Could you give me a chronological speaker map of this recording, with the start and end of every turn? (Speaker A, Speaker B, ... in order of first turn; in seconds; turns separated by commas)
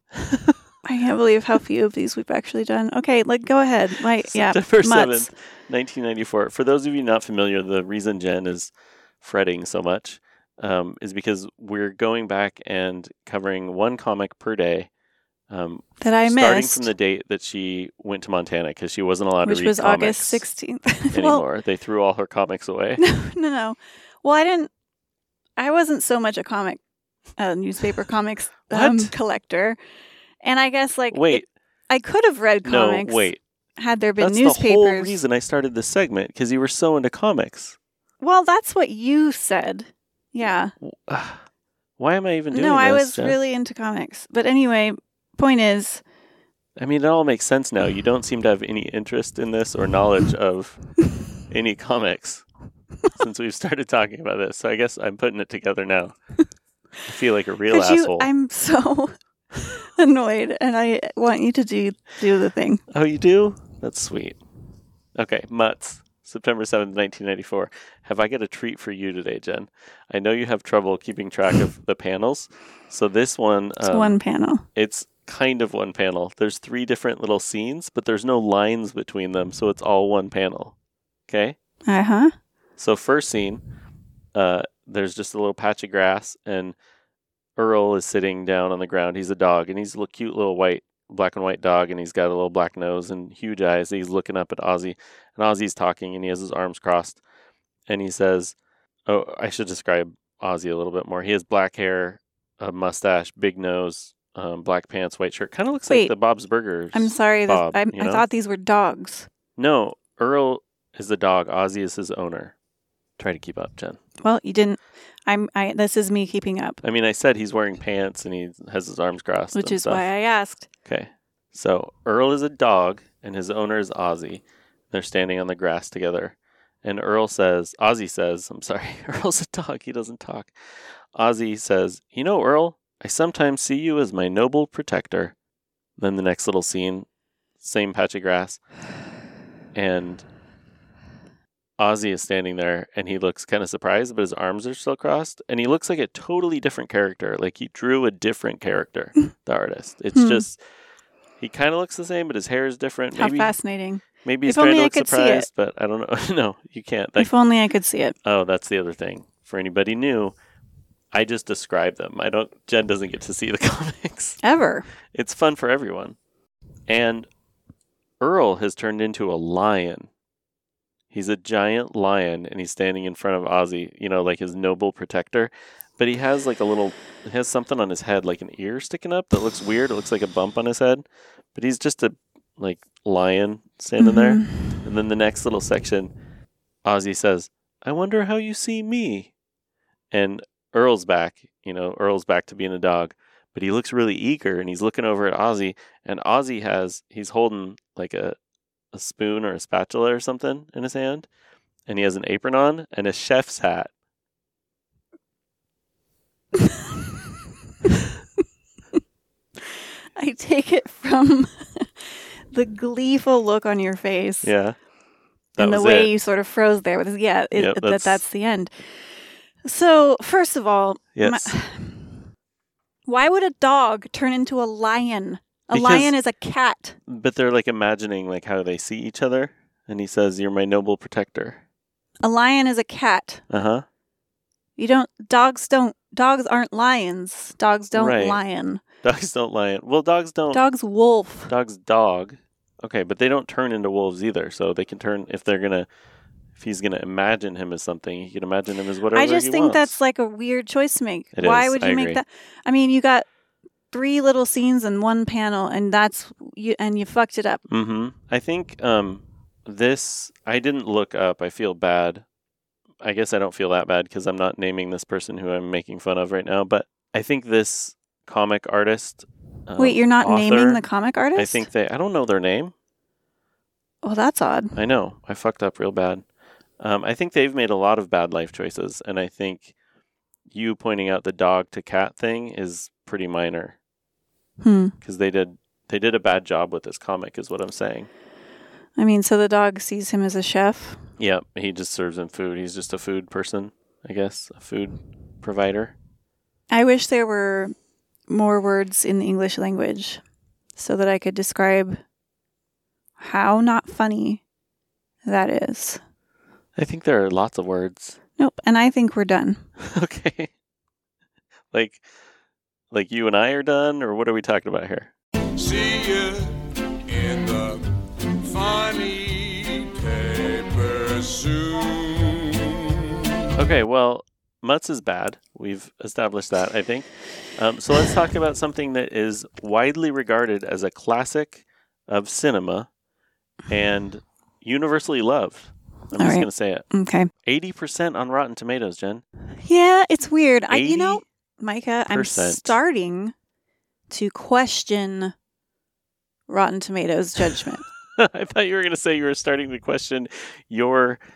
Speaker A: 0.2-0.6, Speaker B: 0.8-5.3, Speaker A: 4.2-8.7, Speaker A: 9.2-14.9, Speaker A: 15.5-20.4, Speaker B: 16.0-16.9, Speaker B: 19.4-21.4, Speaker A: 21.1-23.0, Speaker B: 23.0-24.7, Speaker B: 25.6-26.8, Speaker B: 27.4-29.8, Speaker A: 28.7-29.1, Speaker B: 30.4-35.2, Speaker A: 31.1-31.5, Speaker A: 32.6-33.4, Speaker A: 34.2-37.8, Speaker B: 38.2-40.7, Speaker A: 40.8-41.4, Speaker A: 42.0-43.4, Speaker B: 42.5-46.0, Speaker A: 46.8-50.8, Speaker A: 51.5-52.4, Speaker A: 53.1-56.1, Speaker A: 57.0-58.3, Speaker B: 57.7-62.8, Speaker A: 62.9-64.4, Speaker A: 65.2-74.2, Speaker B: 73.8-74.6, Speaker A: 74.7-80.7, Speaker A: 81.3-81.5, Speaker B: 81.9-82.3, Speaker A: 82.8-83.6, Speaker A: 84.3-86.8, Speaker A: 87.6-97.2, Speaker A: 97.9-98.5, Speaker A: 99.1-108.2, Speaker B: 105.9-106.1, Speaker B: 106.9-109.3, Speaker A: 109.5-112.5, Speaker A: 113.2-114.0, Speaker B: 114.2-116.8, Speaker A: 116.8-120.0, Speaker B: 119.5-120.7, Speaker A: 120.8-130.5, Speaker A: 131.1-135.3, Speaker A: 136.0-137.1, Speaker A: 137.6-138.6, Speaker A: 139.7-140.2, Speaker A: 141.8-150.6, Speaker B: 150.1-150.4, Speaker A: 151.4-153.5, Speaker B: 153.1-155.5, Speaker A: 154.2-157.3, Speaker B: 157.2-158.2, Speaker A: 158.2-160.3, Speaker A: 161.1-164.4, Speaker B: 164.4-164.9, Speaker A: 165.1-166.2, Speaker A: 166.9-167.3, Speaker A: 168.2-170.1, Speaker A: 171.1-186.1, Speaker B: 184.0-184.8, Speaker A: 186.8-189.3, Speaker A: 190.1-198.3, Speaker A: 198.9-201.3, Speaker A: 201.9-203.9, Speaker B: 206.5-207.3, Speaker B: 209.6-214.5, Speaker A: 214.4-214.8, Speaker A: 215.6-216.1, Speaker B: 215.6-218.9, Speaker A: 217.5-218.2, Speaker B: 219.6-222.3, Speaker A: 221.2-221.5, Speaker B: 223.1-227.0, Speaker A: 225.7-226.1, Speaker A: 227.1-231.6, Speaker B: 232.2-233.4, Speaker A: 233.5-233.8, Speaker B: 234.8-238.8, Speaker A: 237.9-238.4, Speaker A: 239.0-240.6, Speaker B: 240.5-241.5, Speaker A: 241.5-245.9, Speaker A: 246.6-250.0, Speaker B: 249.1-253.2, Speaker A: 251.3-252.2, Speaker B: 253.9-257.6, Speaker A: 257.7-262.2, Speaker A: 263.0-270.8, Speaker B: 269.8-271.7, Speaker A: 271.4-272.7, Speaker B: 274.0-274.8, Speaker A: 274.7-276.2, Speaker A: 276.8-279.7, Speaker A: 280.5-283.8, Speaker B: 284.6-284.9, Speaker A: 285.0-288.1, Speaker B: 289.0-291.0, Speaker A: 291.2-295.9, Speaker B: 296.7-297.7, Speaker B: 298.3-300.2, Speaker B: 300.8-302.0, Speaker B: 303.2-304.4, Speaker B: 305.2-306.0, Speaker A: 306.8-308.2, Speaker B: 308.4-309.6, Speaker A: 309.8-310.5, Speaker A: 311.7-312.0, Speaker A: 312.9-315.1, Speaker C: 315.6-317.8, Speaker C: 318.4-323.1, Speaker A: 323.6-332.9, Speaker A: 333.7-336.9, Speaker B: 336.1-337.3, Speaker A: 337.4-339.2, Speaker B: 339.6-343.3, Speaker A: 340.7-341.2, Speaker A: 342.1-342.8, Speaker B: 344.1-345.3, Speaker B: 346.5-347.8, Speaker A: 348.2-351.2